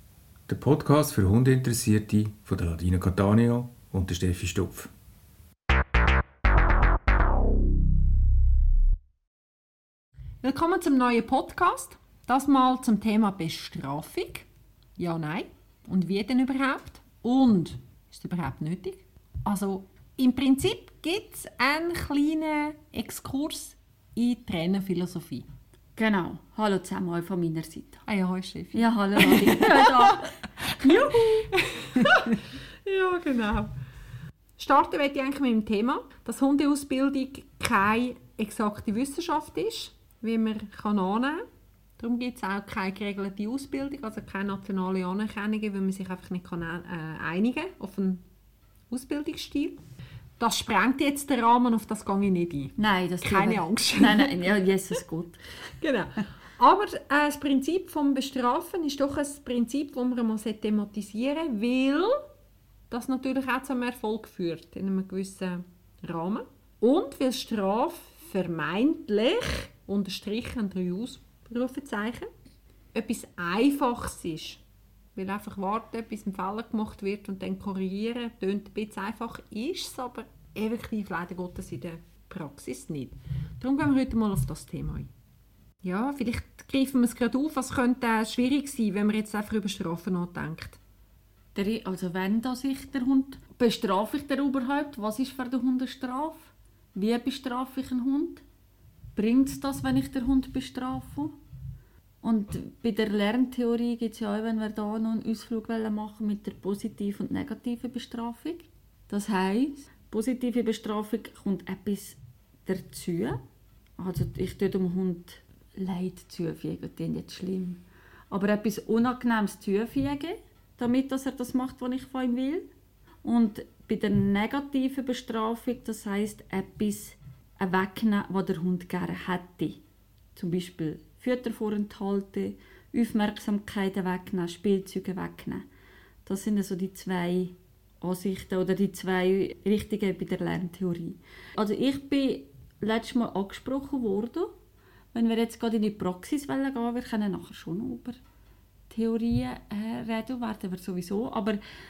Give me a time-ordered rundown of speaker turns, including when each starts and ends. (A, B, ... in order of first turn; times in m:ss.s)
0:00.5-0:04.9 A
0:10.4-0:25.5 B
0:26.0-0:28.0 C
0:28.1-0:33.7 B
0:28.7-0:31.5 C
0:34.6-0:41.4 B
0:42.0-0:48.2 B
0:48.9-0:49.8 B
0:50.4-0:54.6 B
0:52.8-0:55.4 C
0:55.8-1:02.2 B
1:02.9-1:12.3 B
1:12.9-1:14.6 B
1:15.1-1:25.1 B
1:25.8-1:30.8 B
1:31.5-1:38.4 C
1:39.2-1:41.4 C
1:42.2-1:53.4 C
1:54.0-2:02.6 C
2:03.2-2:09.8 C
2:10.3-2:15.6 C
2:16.2-2:24.5 C
2:25.1-2:28.2 C
2:28.9-2:31.6 C